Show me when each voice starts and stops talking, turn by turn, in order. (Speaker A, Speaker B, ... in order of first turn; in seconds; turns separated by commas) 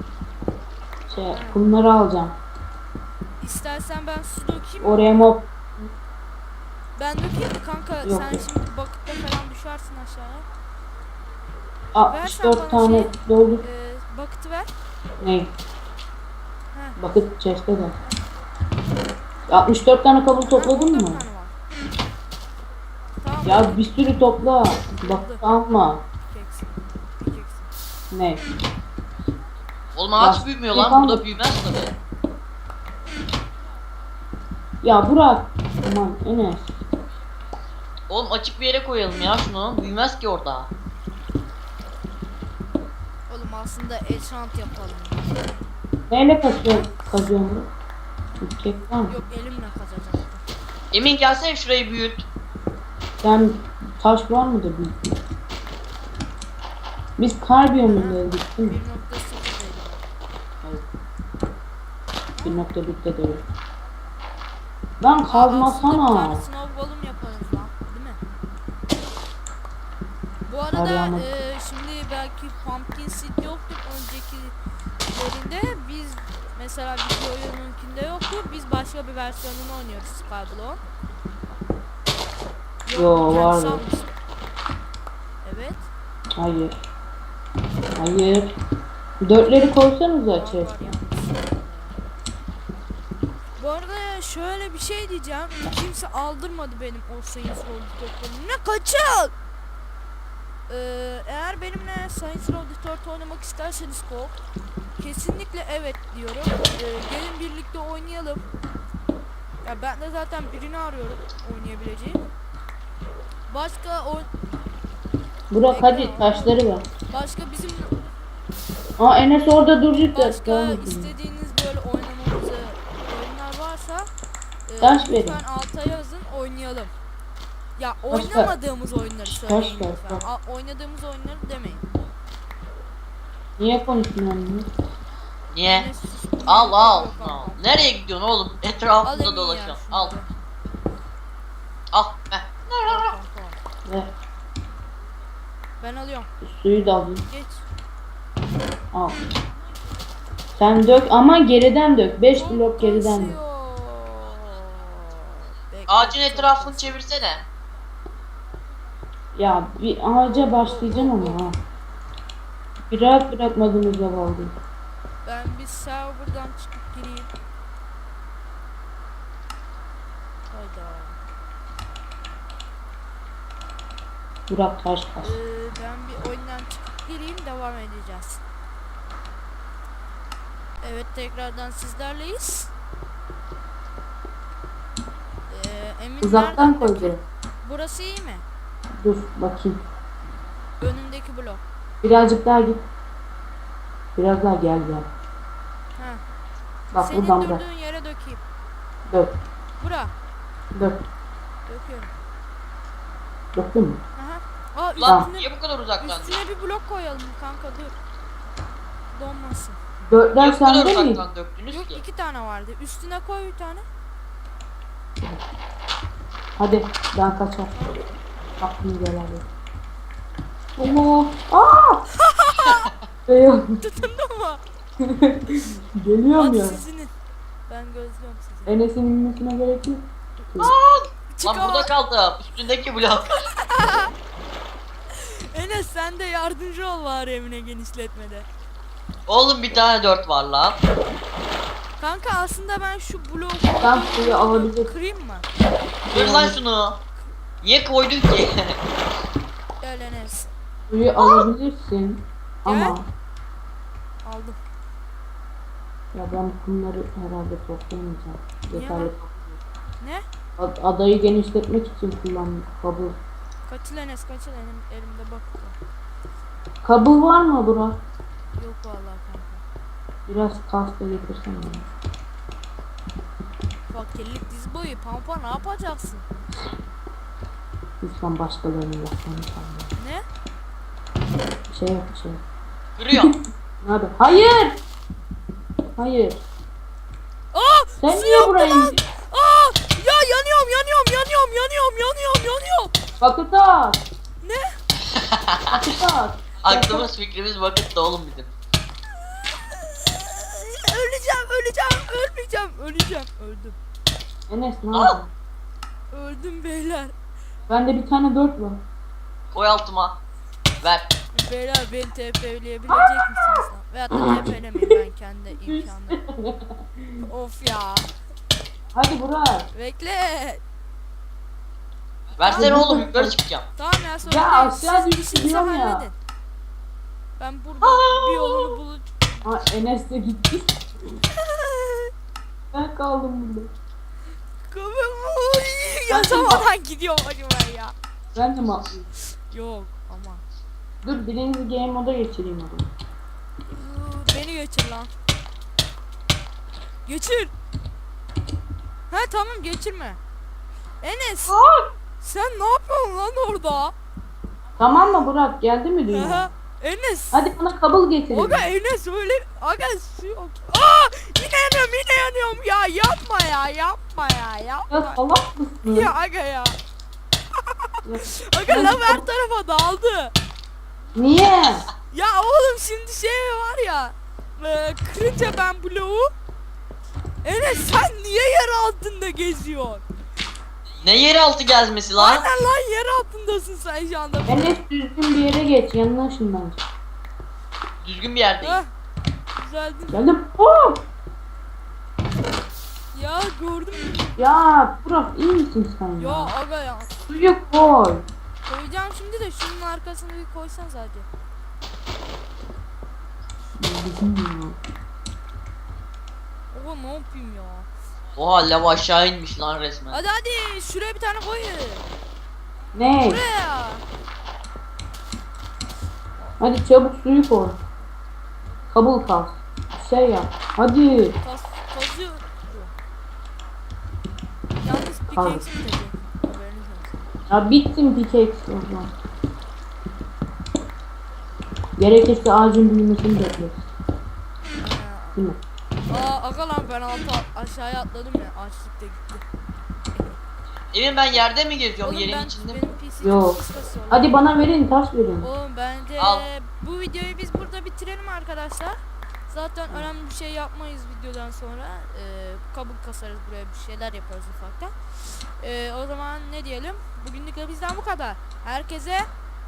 Speaker A: 1.1-2.4, Speaker B: 1.3-1.6, Speaker B: 3.4-5.3, Speaker A: 4.8-5.9, Speaker B: 7.0-10.5, Speaker A: 8.0-8.5, Speaker A: 11.9-13.7, Speaker B: 12.0-14.7, Speaker A: 15.2-15.5, Speaker B: 16.7-17.0, Speaker A: 17.0-18.0, Speaker A: 19.5-21.2, Speaker B: 20.4-21.5, Speaker B: 23.2-23.8, Speaker A: 23.4-26.0, Speaker B: 25.0-25.4, Speaker B: 26.2-27.7, Speaker A: 28.1-28.4, Speaker C: 29.9-31.9, Speaker A: 30.2-31.3, Speaker A: 34.8-36.8, Speaker C: 38.1-40.7, Speaker B: 43.3-45.2, Speaker A: 46.1-47.7, Speaker A: 48.4-49.1, Speaker B: 49.1-50.4, Speaker C: 50.9-52.2, Speaker A: 53.2-55.2, Speaker A: 57.2-58.8, Speaker B: 57.8-60.0, Speaker B: 62.4-62.6, Speaker A: 62.4-63.4, Speaker A: 65.0-66.5, Speaker B: 65.3-68.2, Speaker B: 70.5-74.5, Speaker A: 70.7-71.3, Speaker B: 75.1-80.8, Speaker B: 82.9-84.1, Speaker A: 82.9-83.8, Speaker B: 85.4-85.9, Speaker A: 86.4-86.7, Speaker A: 88.0-88.5, Speaker A: 89.2-90.8, Speaker B: 90.3-92.0, Speaker B: 93.6-99.3, Speaker B: 100.7-104.4, Speaker B: 105.0-108.4, Speaker B: 109.6-112.2, Speaker B: 113.5-114.3, Speaker A: 115.5-116.8, Speaker B: 115.7-117.9, Speaker A: 119.0-121.1, Speaker B: 120.1-124.1, Speaker B: 124.7-126.9, Speaker A: 124.8-125.4, Speaker B: 127.8-131.9, Speaker A: 128.1-128.5, Speaker A: 129.3-130.2, Speaker A: 133.6-134.7, Speaker C: 135.5-135.9, Speaker B: 135.6-137.7, Speaker C: 136.5-140.1, Speaker B: 139.0-140.4, Speaker C: 141.9-143.1, Speaker B: 142.9-143.6, Speaker A: 143.9-144.1, Speaker B: 145.8-146.3, Speaker A: 146.4-147.2, Speaker B: 147.2-147.7, Speaker A: 148.9-149.2, Speaker A: 150.6-153.4, Speaker B: 152.1-157.0, Speaker C: 155.9-157.4, Speaker A: 159.3-161.6, Speaker B: 160.3-161.4, Speaker A: 162.9-164.5, Speaker B: 165.2-167.3, Speaker B: 170.5-171.2, Speaker A: 174.5-175.4, Speaker B: 175.2-178.4, Speaker B: 180.8-182.7, Speaker B: 185.5-188.4, Speaker A: 186.2-187.2, Speaker A: 189.0-189.8, Speaker B: 190.8-191.6, Speaker A: 192.0-192.8, Speaker A: 194.2-195.1, Speaker B: 196.0-196.2, Speaker A: 196.9-197.6, Speaker B: 196.9-198.4, Speaker B: 199.8-200.1, Speaker B: 201.7-202.2, Speaker A: 203.6-204.0, Speaker B: 204.2-205.5, Speaker C: 205.0-206.3, Speaker B: 206.0-207.9, Speaker B: 209.1-209.8, Speaker A: 210.1-211.2, Speaker C: 210.4-212.0, Speaker B: 211.7-213.8, Speaker A: 216.6-217.7, Speaker B: 217.7-218.0, Speaker A: 218.6-219.4, Speaker A: 220.8-222.0, Speaker B: 222.2-222.9, Speaker A: 223.3-223.8, Speaker B: 223.8-224.6, Speaker A: 225.0-226.8, Speaker B: 226.3-227.1, Speaker B: 227.7-228.8, Speaker A: 228.7-230.0, Speaker C: 230.6-233.3, Speaker B: 231.3-231.9, Speaker B: 233.3-234.1, Speaker B: 235.1-238.5, Speaker C: 239.3-240.8, Speaker B: 242.0-245.5, Speaker A: 243.8-244.9, Speaker A: 246.1-246.6, Speaker C: 246.1-247.0, Speaker C: 247.6-248.8, Speaker B: 249.8-250.5, Speaker A: 250.9-253.1, Speaker B: 251.2-251.4, Speaker B: 252.7-253.0, Speaker B: 254.2-254.6, Speaker A: 256.1-259.6, Speaker B: 258.7-259.1, Speaker B: 260.0-260.2, Speaker A: 260.6-263.2, Speaker B: 263.7-265.8, Speaker A: 266.8-268.0, Speaker B: 268.6-269.6, Speaker A: 270.3-271.9, Speaker B: 273.9-276.2, Speaker A: 278.0-279.9, Speaker B: 280.0-280.2, Speaker A: 281.7-282.4, Speaker C: 283.0-283.3, Speaker A: 283.1-284.8, Speaker A: 286.0-286.4, Speaker B: 287.5-293.0, Speaker A: 288.0-289.0, Speaker A: 293.2-294.0, Speaker B: 294.4-294.8, Speaker C: 295.1-295.8, Speaker A: 295.7-297.1, Speaker C: 296.6-298.5, Speaker B: 299.2-303.8, Speaker A: 304.5-305.3, Speaker C: 304.9-305.2, Speaker B: 306.1-307.1, Speaker A: 307.7-308.8, Speaker C: 309.5-310.2, Speaker C: 310.8-311.1, Speaker B: 311.3-316.2, Speaker A: 315.7-317.3, Speaker B: 317.2-318.1, Speaker A: 318.9-319.7, Speaker B: 319.7-320.6, Speaker C: 322.4-323.6, Speaker B: 322.4-323.0, Speaker A: 322.5-323.4, Speaker B: 323.8-326.1, Speaker A: 324.2-326.1, Speaker B: 327.4-329.4, Speaker C: 327.8-328.7, Speaker A: 329.4-330.8, Speaker B: 331.3-332.1, Speaker A: 332.7-333.7, Speaker B: 334.7-337.9, Speaker A: 336.1-336.7, Speaker A: 338.4-339.1, Speaker B: 339.5-340.4, Speaker A: 341.1-342.9, Speaker B: 343.7-345.1, Speaker B: 347.1-347.5, Speaker B: 349.1-350.2, Speaker B: 351.0-351.6, Speaker A: 351.5-351.9, Speaker B: 352.2-353.9, Speaker A: 354.8-356.5, Speaker B: 354.9-355.2, Speaker B: 356.1-357.5, Speaker A: 357.3-358.7, Speaker B: 358.3-365.2, Speaker A: 364.9-366.1, Speaker B: 365.9-366.8, Speaker B: 367.6-370.3, Speaker A: 368.1-369.2, Speaker A: 371.1-371.9, Speaker B: 371.9-376.3, Speaker B: 377.4-380.0, Speaker C: 381.0-382.4, Speaker B: 382.2-384.7, Speaker A: 384.5-386.8, Speaker C: 388.0-388.8, Speaker B: 388.6-388.9, Speaker B: 389.6-390.3, Speaker A: 390.1-391.0, Speaker B: 393.1-394.4, Speaker A: 394.4-396.5, Speaker B: 396.2-397.1, Speaker A: 397.3-398.2, Speaker B: 398.7-401.3, Speaker A: 403.8-404.8, Speaker B: 406.7-407.9, Speaker C: 408.4-410.2, Speaker B: 410.1-412.1, Speaker A: 412.9-413.4, Speaker B: 413.2-414.0, Speaker A: 416.6-417.8, Speaker A: 418.9-421.4, Speaker B: 421.4-422.9, Speaker B: 424.8-427.3, Speaker A: 425.3-425.7, Speaker A: 427.5-429.1, Speaker A: 432.0-433.9, Speaker B: 434.8-435.4, Speaker B: 436.1-439.4, Speaker C: 440.9-442.8, Speaker B: 442.0-444.4, Speaker A: 443.2-443.6, Speaker A: 444.1-445.5, Speaker B: 445.4-449.0, Speaker C: 446.2-446.5, Speaker B: 449.5-459.3